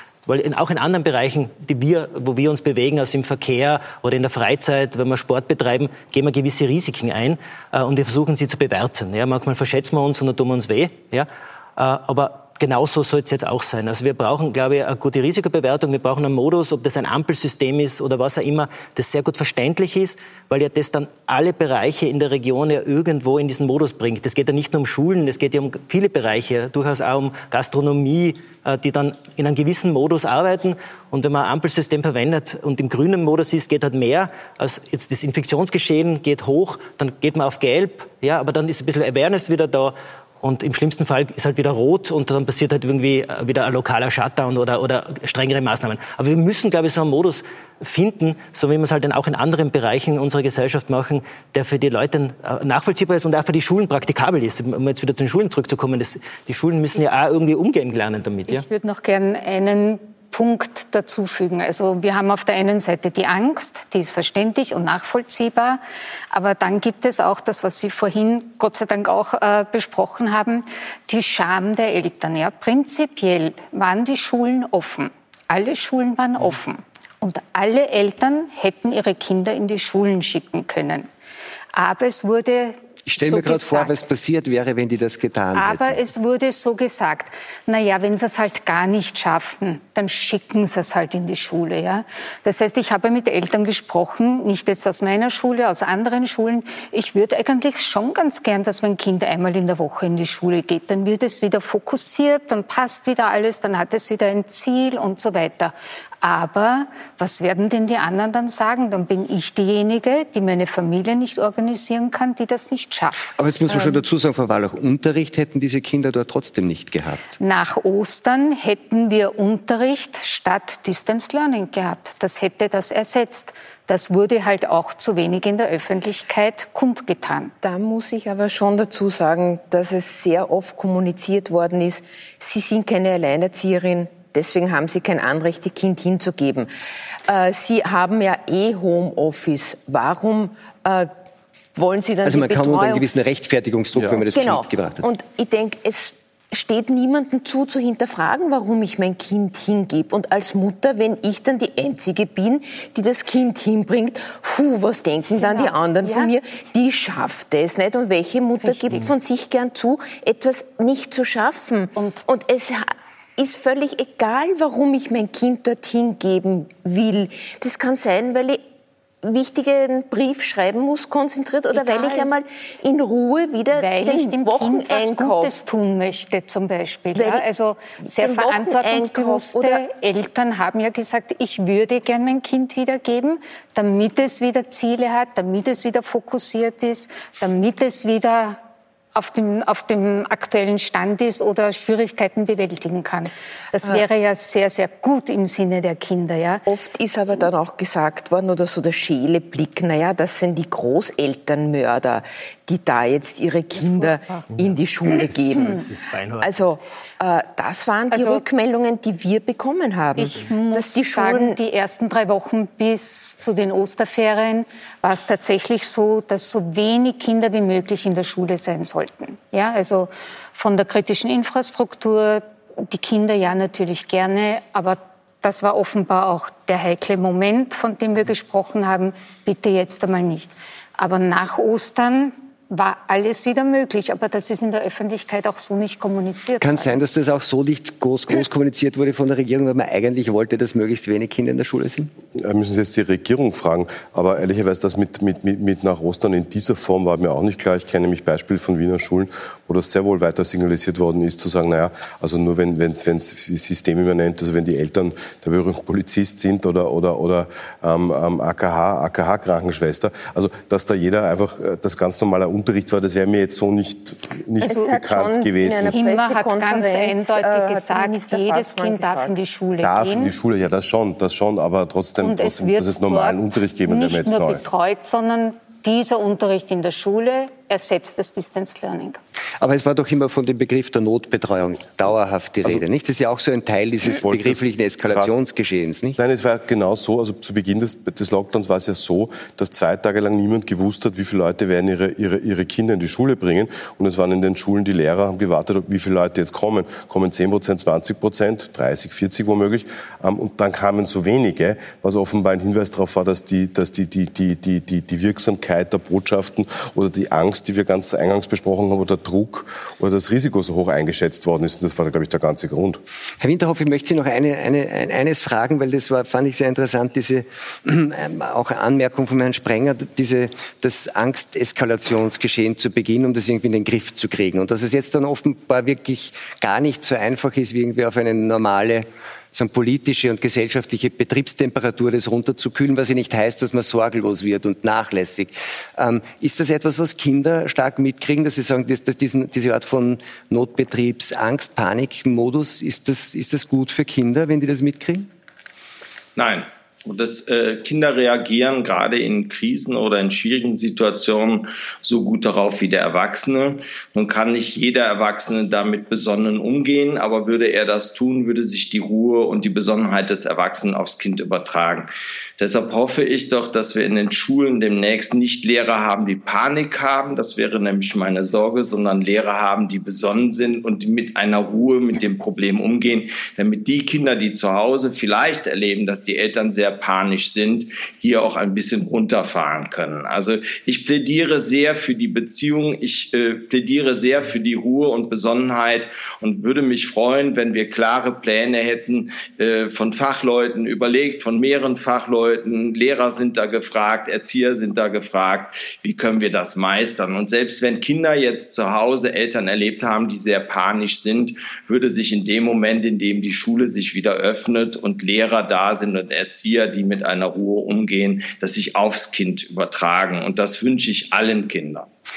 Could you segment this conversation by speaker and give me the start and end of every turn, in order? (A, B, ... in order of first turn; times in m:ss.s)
0:00.3-0:58.7 A
0:58.5-1:05.8 B
1:06.3-1:21.1 B
1:21.7-1:24.0 B
1:23.1-1:26.1 C
1:25.5-1:53.2 B
1:53.4-1:57.3 C
1:57.4-2:07.5 B
2:07.6-2:16.7 D
2:17.3-2:21.1 D
2:21.8-2:23.1 D
2:22.2-2:25.0 C
2:24.0-2:24.3 E
2:24.3-2:42.8 D
2:35.4-2:36.3 B
2:38.6-2:38.9 B
2:42.0-2:42.3 B
2:43.4-2:48.6 D
2:49.2-2:55.6 D
2:51.7-2:52.3 B
2:53.7-3:08.6 B
2:57.2-2:57.5 D
2:58.0-2:59.8 D
3:09.2-3:16.7 B
3:16.7-3:25.9 D
3:23.8-3:24.4 B
3:24.6-3:26.7 A
3:26.4-3:31.6 D
3:28.1-3:28.4 B
3:30.2-3:57.0 B
3:56.6-4:02.1 C
4:02.4-4:26.0 E
4:24.6-4:29.4 D
4:24.6-4:24.9 B
4:25.9-4:30.3 B
4:29.8-4:34.6 E
4:32.2-4:39.2 B
4:39.6-4:46.2 C
4:44.2-4:45.3 E
4:46.2-5:13.0 E
5:13.4-5:45.3 C
5:46.4-6:52.1 F